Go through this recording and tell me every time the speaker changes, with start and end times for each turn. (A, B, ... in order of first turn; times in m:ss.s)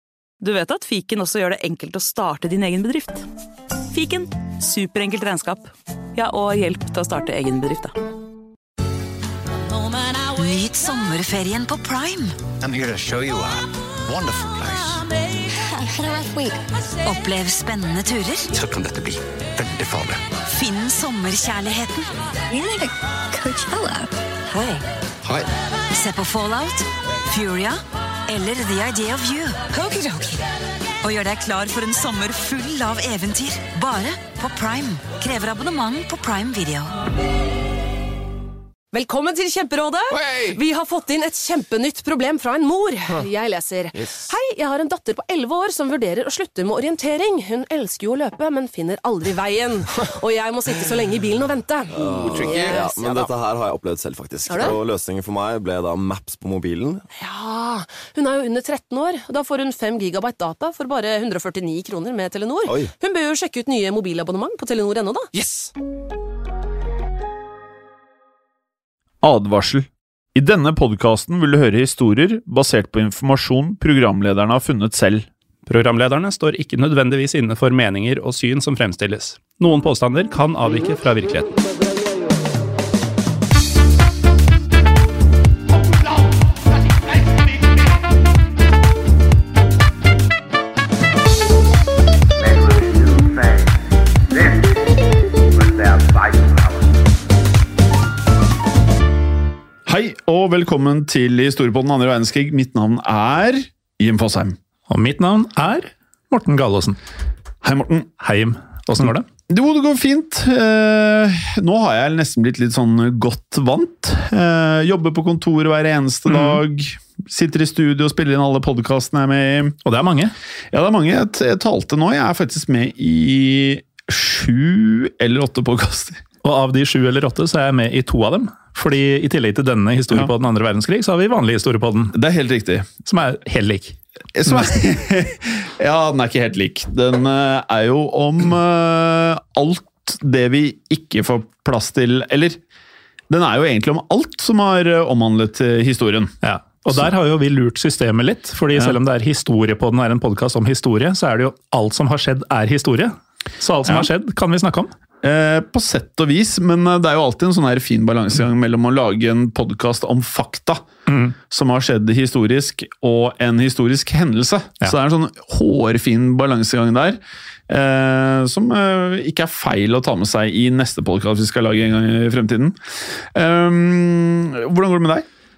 0:00.4-0:03.2 A
0:03.9-0:07.9 A
0:10.3-0:12.4 B
0:12.6-0:15.1 C
0:15.7-0:16.6 D
0:17.0-0:18.5 B
0:18.6-0:20.2 C
0:20.5-0:22.2 B
0:22.5-0:24.1 D
0:24.5-0:24.8 B
0:25.9-0:30.4 B
0:31.0-0:36.9 B
0:38.9-0:53.3 E
0:52.0-0:57.0 F
0:52.3-0:52.8 C
0:54.5-0:54.8 E
0:57.2-1:05.3 E
1:09.2-1:15.3 G
1:15.6-1:21.5 H
1:32.4-1:33.5 C
1:35.8-1:36.3 C
1:39.8-1:44.6 G
1:44.9-1:47.0 H
1:47.6-1:48.1 G
1:48.2-1:49.2 H
1:49.0-1:59.8 G
1:56.3-1:56.6 H
1:59.8-2:00.3 H
2:00.7-2:06.2 G
2:06.4-2:12.2 H
2:12.1-2:12.9 G
2:13.0-2:14.0 H
2:14.3-2:22.6 G
2:23.3-2:26.3 G
2:26.4-2:34.9 H
2:35.2-2:40.8 G
2:41.1-2:41.3 H
2:41.5-2:55.2 G